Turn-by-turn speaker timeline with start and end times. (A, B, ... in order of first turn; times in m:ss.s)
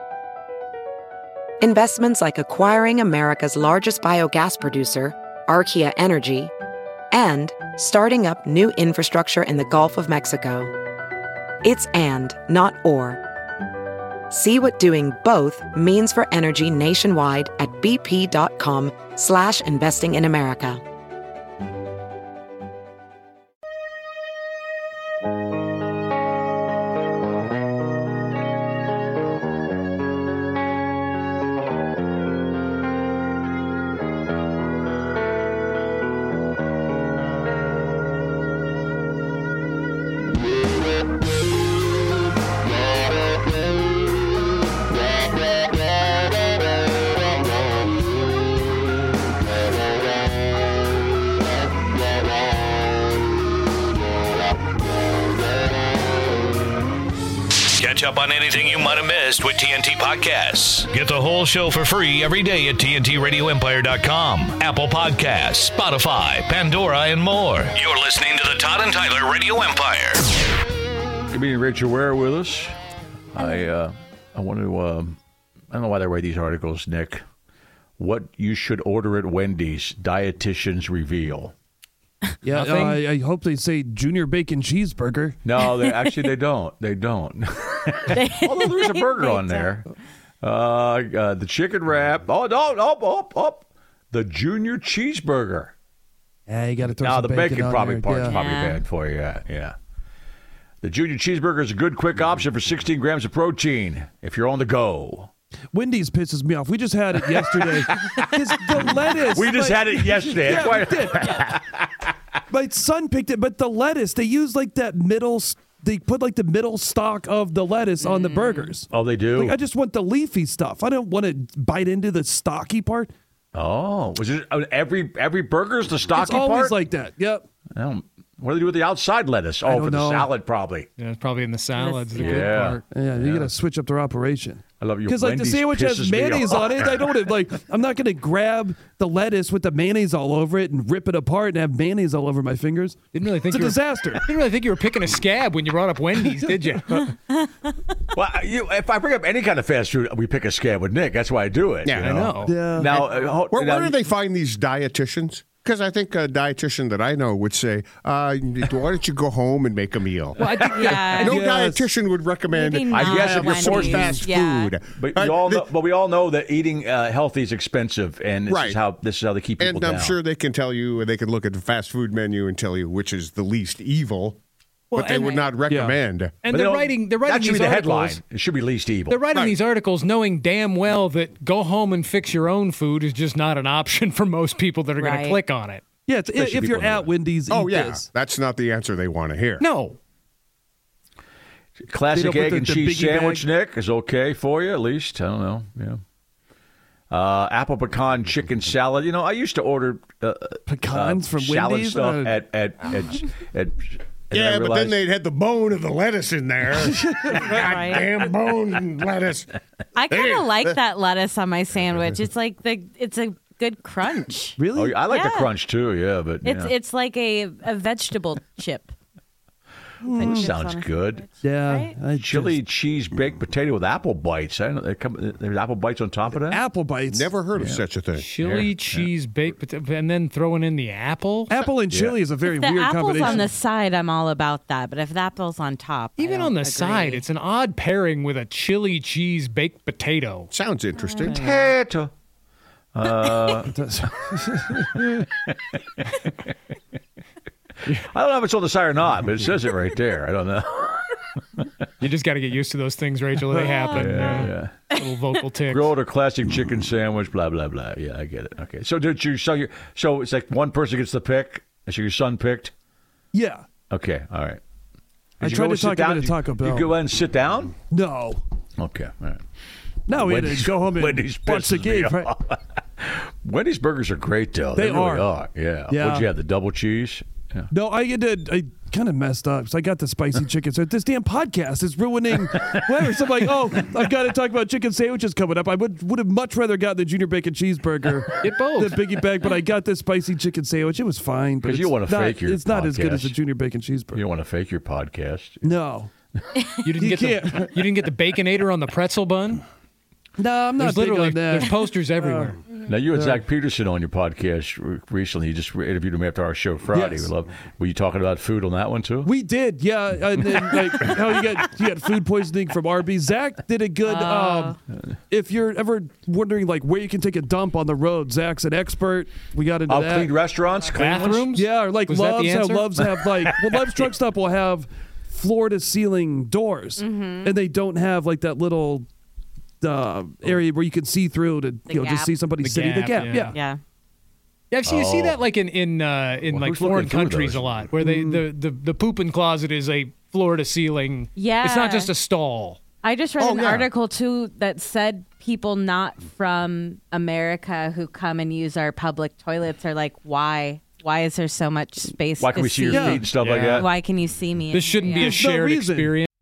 0:01.6-0:06.5 A
0:07.1-0:10.7 A
0:11.6-0:13.2 A
0:14.3-0:20.8 A
0:57.8-1:10.2 B
1:11.3-1:12.7 C
1:13.3-1:15.2 C
1:15.7-1:17.2 C
1:18.0-1:21.5 C
1:22.4-1:25.4 D
1:22.5-1:23.0 E
1:25.4-1:29.9 C
1:25.7-1:26.1 F
1:28.1-1:29.8 F
1:30.4-1:35.7 C
1:36.5-1:38.4 D
1:36.9-1:39.8 C
1:38.2-1:38.8 F
1:40.8-1:45.3 C
1:45.7-1:51.3 D
1:47.4-1:52.1 C
1:52.5-2:03.1 D
1:58.0-1:58.7 F
1:58.9-1:59.6 C
2:03.5-2:06.7 C
2:06.1-2:07.4 D
2:07.7-2:10.9 C
2:09.6-2:10.3 D
2:11.0-2:12.8 E
2:11.7-2:12.6 F
2:12.1-2:13.5 C
2:12.9-2:24.2 D
2:14.8-2:17.2 C
2:23.1-2:27.1 E
2:28.1-2:34.0 C
2:31.8-2:32.2 G
2:32.0-2:32.5 E
2:32.4-2:33.1 D
2:33.5-2:40.4 G
2:40.4-2:41.4 E
2:40.7-2:41.3 F
2:41.2-2:45.6 G
2:41.2-2:41.9 D
2:42.4-2:44.7 F
2:42.9-2:44.3 C
2:44.9-2:50.2 C
2:48.5-2:48.8 G
2:49.6-2:54.4 G
2:54.9-2:55.6 E
2:54.9-2:56.3 G
2:55.7-2:56.0 D
2:56.4-2:58.2 E
2:56.5-2:59.2 C
2:59.1-3:05.8 E
3:05.0-3:05.4 F
3:06.1-3:08.1 D
3:06.3-3:07.1 C
3:07.5-3:09.6 G
3:09.6-3:10.0 E
3:11.8-3:16.0 C
3:12.1-3:13.4 D
3:17.1-3:25.0 C
3:20.7-3:22.4 D
3:24.3-3:29.5 G
3:26.7-3:27.5 D
3:27.5-3:28.1 F
3:30.0-3:35.5 F
3:30.1-3:30.8 G
3:34.6-3:35.1 D
3:34.7-3:36.7 C
3:36.4-3:38.9 F
3:40.0-3:40.5 D
3:40.1-3:42.0 F
3:40.2-3:41.2 C
3:41.4-3:42.6 D
3:42.1-3:46.6 C
3:46.4-3:47.4 D
3:47.1-3:48.3 G
3:47.5-3:47.8 C
3:48.2-3:51.5 E
3:48.4-3:49.1 C
3:51.5-3:53.5 D
3:51.9-3:52.2 C
3:52.5-3:57.2 F
3:56.2-4:00.5 E
4:00.5-4:01.4 G
4:01.0-4:01.7 F
4:01.2-4:02.1 C
4:02.9-4:03.7 C
4:03.6-4:05.0 D
4:04.7-4:06.2 C
4:07.9-4:11.3 C
4:12.0-4:15.9 E
4:13.5-4:14.5 D
4:13.6-4:14.0 F
4:13.9-4:14.8 C
4:15.7-4:22.7 C
4:23.3-4:23.6 D
4:23.9-4:24.6 C
4:25.4-4:27.7 C
4:25.4-4:26.9 D
4:27.9-4:28.4 D
4:28.8-4:29.4 C
4:30.1-4:32.3 D
4:30.1-4:37.7 C
4:34.7-4:35.3 D
4:35.9-4:36.3 D
4:37.7-4:54.2 D
4:42.5-4:43.1 C
4:48.4-4:49.0 E
4:51.6-4:53.4 C
4:54.1-4:55.7 C
4:55.6-4:56.1 D
4:56.8-4:59.6 E
4:57.0-4:57.7 D
5:00.4-5:02.5 D
5:00.8-5:02.6 E
5:02.8-5:09.3 C
5:03.1-5:03.4 D
5:06.9-5:07.3 D
5:09.2-5:14.8 D
5:14.0-5:14.8 F
5:15.3-5:20.3 D
5:19.9-5:21.5 C
5:21.0-5:23.0 E
5:21.5-5:29.1 D
5:27.0-5:27.5 F
5:29.8-5:33.6 D
5:31.9-5:32.4 F
5:32.6-5:33.6 E
5:33.4-5:33.8 F
5:34.7-5:42.8 E
5:34.8-5:35.4 C
5:36.5-5:37.8 C
5:38.0-5:38.4 D
5:41.3-5:42.1 F
5:43.0-5:55.4 F
5:43.4-5:43.8 G
5:52.4-5:53.9 C
5:52.9-5:53.3 D
5:53.2-5:53.9 E
5:54.7-5:56.3 E
5:55.1-5:56.2 D